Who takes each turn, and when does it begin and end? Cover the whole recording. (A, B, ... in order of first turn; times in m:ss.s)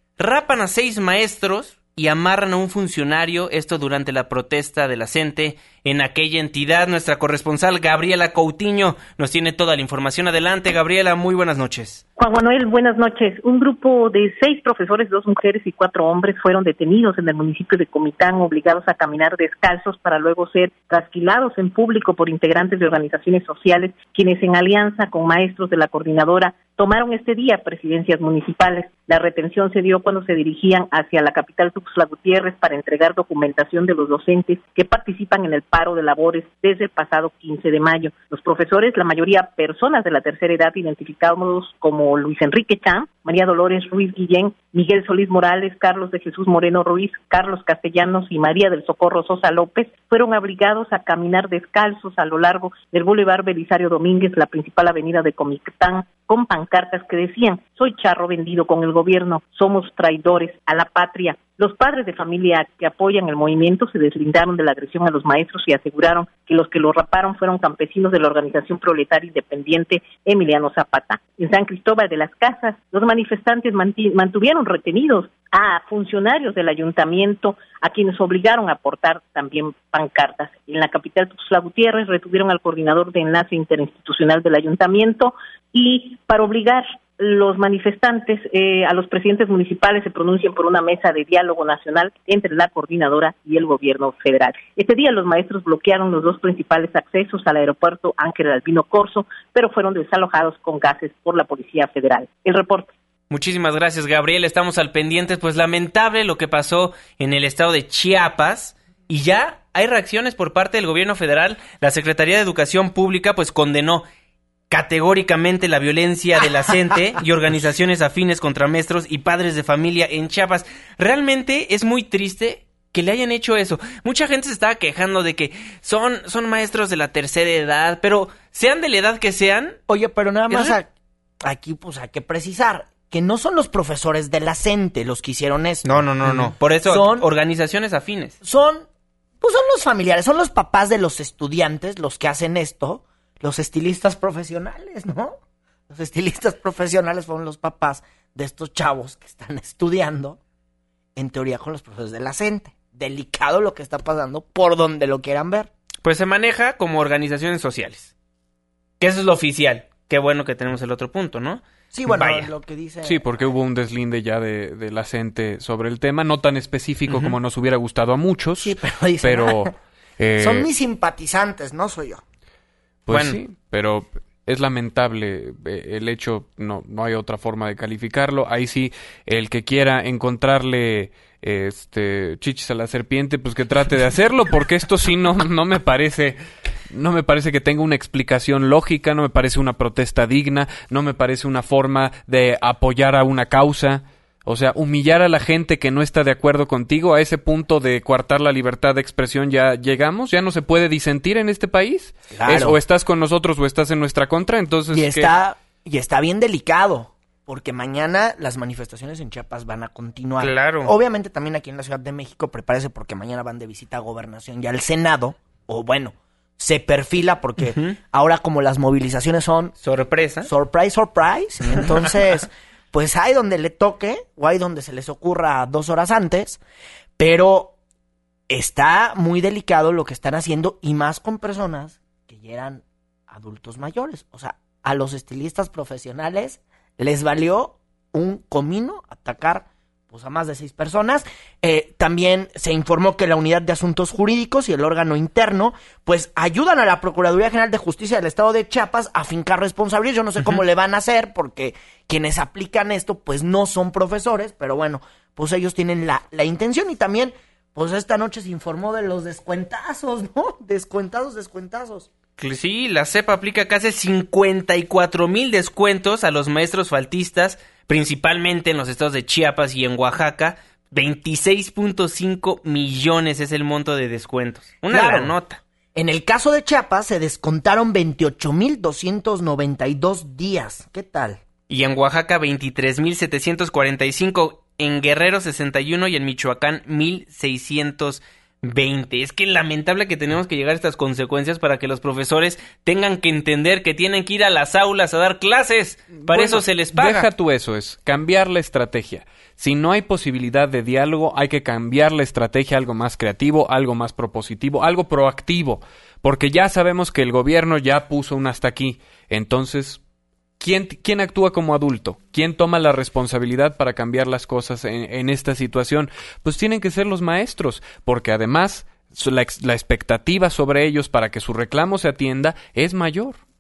0:00.2-0:12.0 A
0:12.2-1:42.9 B
1:43.3-1:54.0 A
1:54.7-2:09.8 A
2:09.9-2:10.9 C
2:10.5-2:10.8 A
2:11.4-2:17.3 C
2:15.8-2:18.4 A
2:18.4-2:18.8 C
2:19.4-2:25.4 C
2:25.9-2:30.4 C
2:31.2-2:35.7 C
2:36.0-2:38.1 A
2:39.0-2:42.5 A
2:41.9-2:43.3 C
2:43.0-2:50.7 D
2:47.1-2:47.3 A
2:48.6-2:49.7 C
2:50.4-2:52.2 C
2:53.1-3:06.4 D
2:53.1-2:53.4 A
3:06.9-3:25.3 D
3:22.3-3:22.8 C
3:24.9-3:39.7 C
3:30.4-3:30.9 A
3:37.6-3:38.0 A
3:39.8-3:40.5 A
3:40.4-3:46.6 C
3:47.2-3:47.8 C
3:48.5-4:22.1 C
4:22.4-4:35.6 A
4:34.9-4:35.3 C
4:36.0-4:41.4 C
4:41.7-4:57.3 A
4:56.2-5:10.0 D
5:10.6-5:23.4 D